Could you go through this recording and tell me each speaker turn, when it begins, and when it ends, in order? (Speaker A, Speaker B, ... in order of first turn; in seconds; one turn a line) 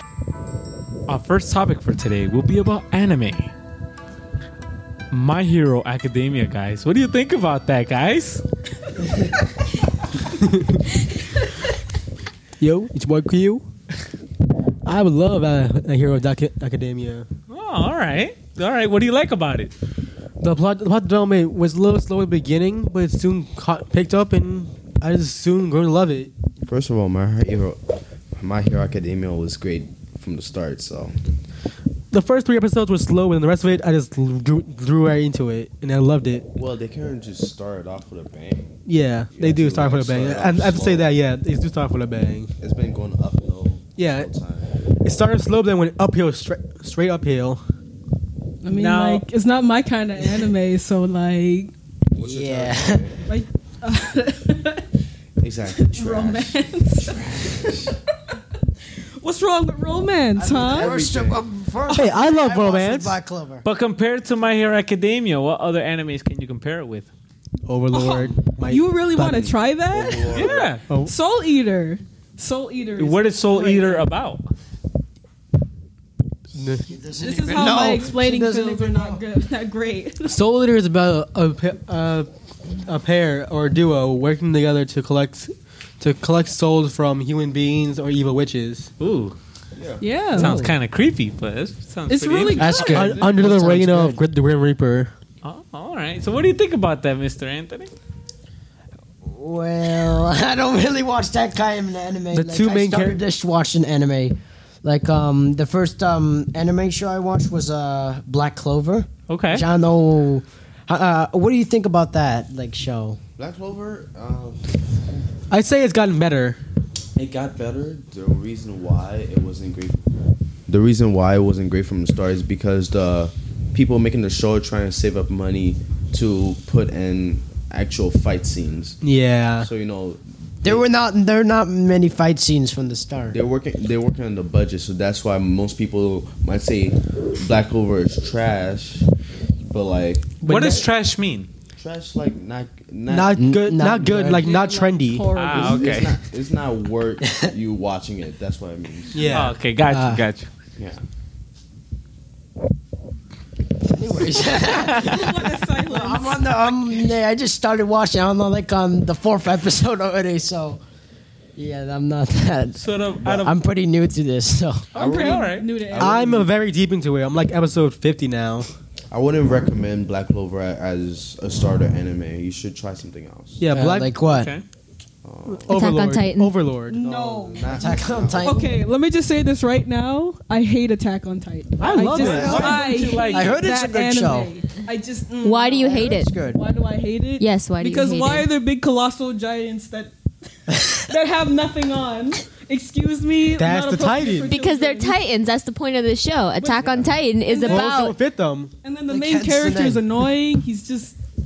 Speaker A: 1.1-3.5
Speaker A: 5.1-8.4
Speaker B: 10.3-10.8
Speaker B: 12.6-13.6
Speaker B: 14.8-17.2
Speaker A: 17.5-19.7
Speaker B: 20.4-26.3
Speaker C: 26.7-27.8
Speaker C: 28.4-31.1
Speaker B: 32.1-36.5
Speaker C: 36.5-38.8
Speaker B: 38.9-42.5
Speaker C: 39.3-41.1
Speaker C: 42.6-44.7
Speaker B: 44.0-44.3
Speaker B: 45.0-47.6
Speaker D: 48.6-51.7
Speaker A: 48.7-49.2
Speaker C: 52.1-53.2
Speaker E: 52.2-53.1
Speaker D: 53.3-54.9
Speaker C: 55.4-56.6
Speaker D: 55.8-57.9
Speaker D: 59.2-60.9
Speaker C: 60.4-61.4
Speaker E: 60.5-63.6
Speaker B: 61.9-63.2
Speaker A: 63.6-67.1
Speaker B: 67.7-69.5
Speaker D: 67.9-70.5
Speaker C: 69.9-70.8
Speaker A: 70.3-70.8
Speaker D: 71.0-74.1
Speaker A: 73.0-74.4
Speaker B: 76.5-76.9
Speaker E: 76.9-79.2
Speaker D: 77.2-80.4
Speaker B: 80.2-82.3
Speaker B: 82.8-88.9
Speaker A: 89.0-89.3
Speaker C: 89.8-90.0
Speaker D: 90.0-90.6
Speaker A: 90.3-93.6
Speaker B: 90.4-90.7
Speaker D: 92.1-93.5
Speaker B: 92.5-95.1
Speaker E: 93.4-94.2
Speaker A: 95.4-97.9
Speaker E: 99.2-113.2
Speaker B: 102.3-103.2
Speaker A: 109.3-109.6
Speaker C: 113.4-114.6
Speaker B: 115.5-116.6
Speaker C: 117.2-120.0
Speaker C: 120.7-129.0
Speaker B: 129.0-129.7
Speaker C: 129.6-130.8
Speaker E: 130.6-133.4
Speaker C: 133.3-139.1
Speaker C: 139.7-140.4
Speaker B: 140.4-140.8
Speaker A: 140.4-141.5
Speaker C: 141.8-143.5
Speaker B: 143.1-145.3
Speaker E: 143.4-144.4
Speaker D: 144.3-146.0
Speaker A: 145.3-146.1
Speaker C: 145.5-149.3
Speaker B: 149.1-150.1
Speaker A: 149.3-150.5
Speaker E: 153.9-160.8
Speaker D: 154.9-156.5
Speaker E: 161.6-164.9
Speaker A: 162.8-163.6
Speaker A: 164.9-165.7
Speaker C: 164.9-166.5
Speaker D: 165.0-166.5
Speaker B: 166.0-168.7
Speaker C: 169.1-173.7
Speaker B: 173.6-174.1
Speaker E: 173.7-174.5
Speaker A: 174.2-174.6
Speaker C: 175.2-175.8
Speaker B: 175.5-177.0
Speaker F: 175.7-176.6
Speaker D: 176.9-190.1
Speaker C: 176.9-178.6
Speaker E: 177.6-178.7
Speaker B: 181.8-182.8
Speaker A: 181.8-183.6
Speaker E: 182.2-184.5
Speaker F: 185.4-186.3
Speaker E: 185.8-186.6
Speaker F: 187.4-188.5
Speaker D: 190.9-195.2
Speaker B: 193.6-194.5
Speaker F: 194.5-198.2
Speaker D: 196.6-198.0
Speaker B: 197.7-198.7
Speaker D: 198.8-201.2
Speaker E: 199.1-200.0